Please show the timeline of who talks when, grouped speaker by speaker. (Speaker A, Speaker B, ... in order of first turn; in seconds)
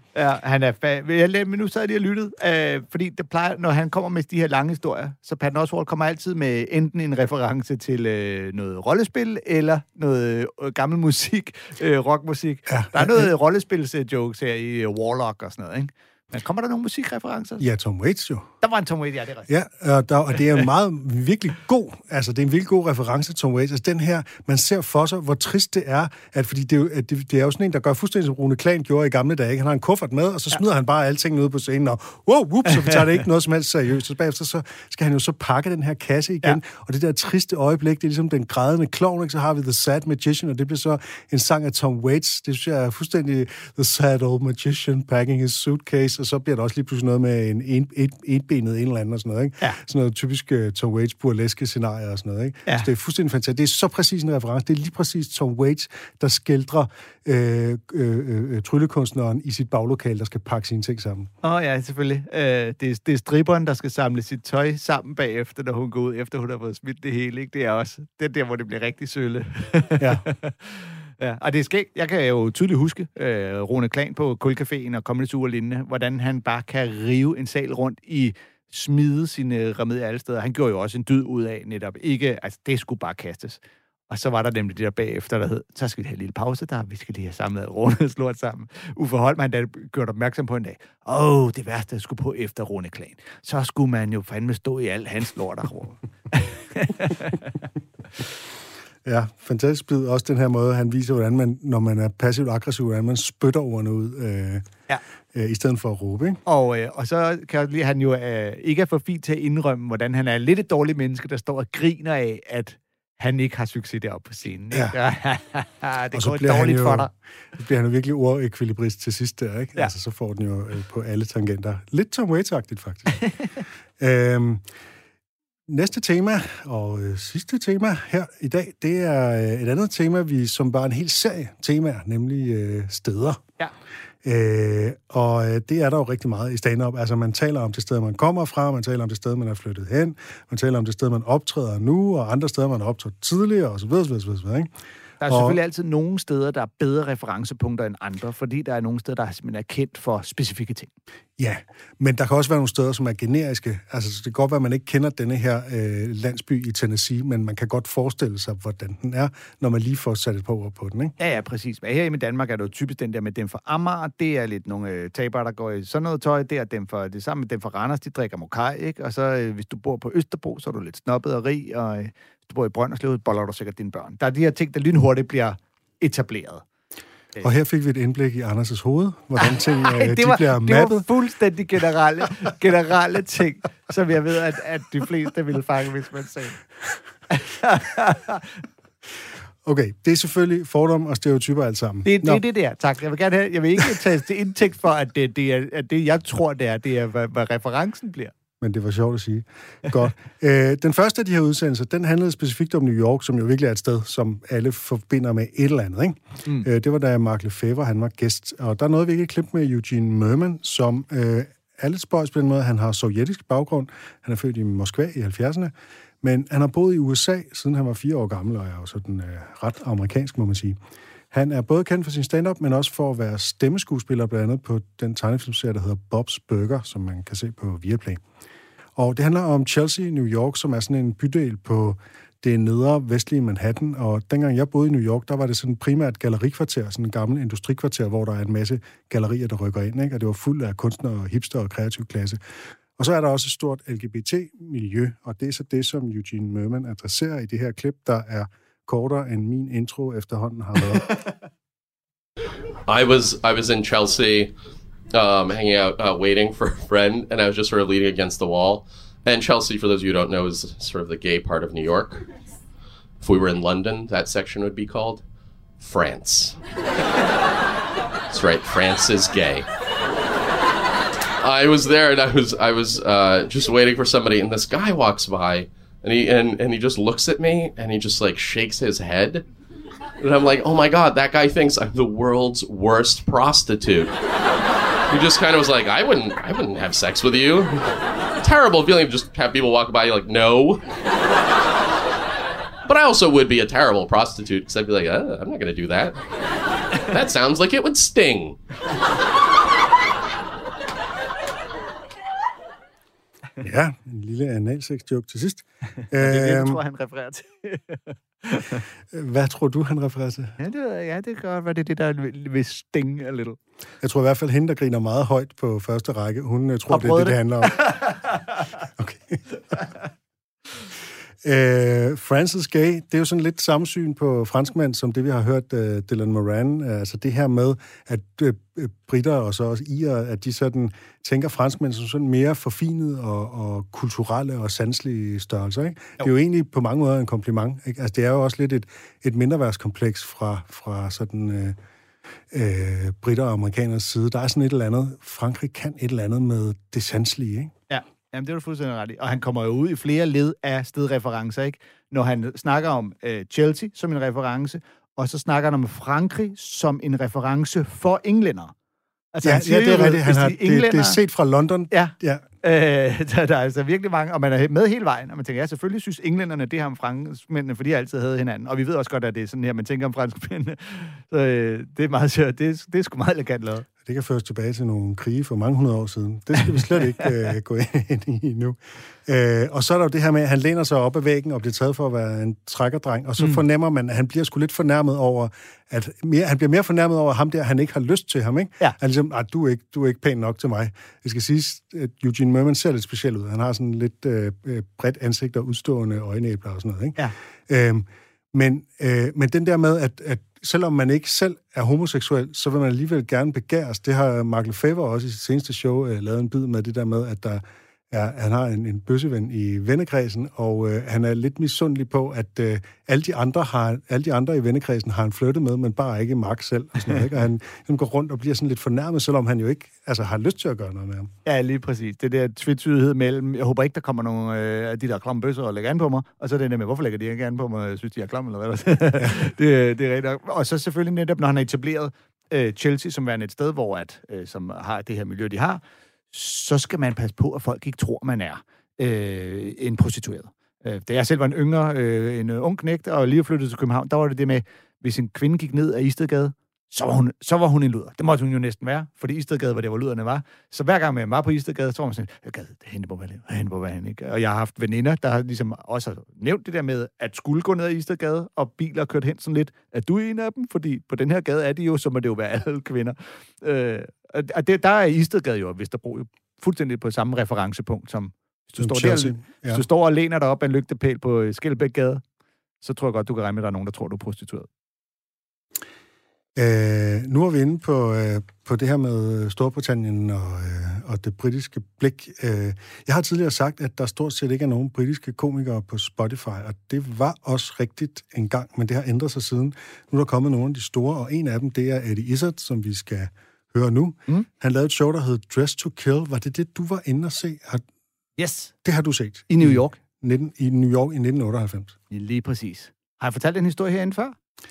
Speaker A: 0.1-17.6, 18.6-19.5, 61.4-97.5, 106.5-117.1, 145.2-150.9, 161.2-176.6, 179.4-186.6, 187.3-188.6, 192.0-198.3, 306.2-308.8, 310.6-313.6, 316.9-318.2, 347.9-358.7, 359.3-361.2, 361.9-373.9, 421.4-472.2, 472.8-474.7, 498.4-498.7, 499.5-500.0, 502.1-504.4
Speaker B: 12.7-13.3, 17.6-18.5, 19.5-61.3, 70.0-70.2, 99.0-104.7, 105.3-106.4, 116.1-123.2, 124.0-124.6, 125.7-133.4, 134.2-144.7, 145.2-145.6, 151.4-161.2, 177.4-181.1, 189.7-192.4, 198.6-220.8, 221.3-228.2, 229.0-242.4, 243.0-251.2, 303.6-306.8, 309.1-310.6, 314.0-317.8, 319.0-319.4, 321.4-341.8, 342.5-347.7, 359.4-362.5, 374.1-421.3, 468.8-469.8, 476.6-497.9, 498.8-502.0
Speaker C: 252.9-254.5, 255.1-262.3, 263.2-265.2, 265.8-266.6, 268.3-269.7, 271.4-279.4, 280.2-284.2, 285.1-290.9, 292.9-296.2, 297.0-298.6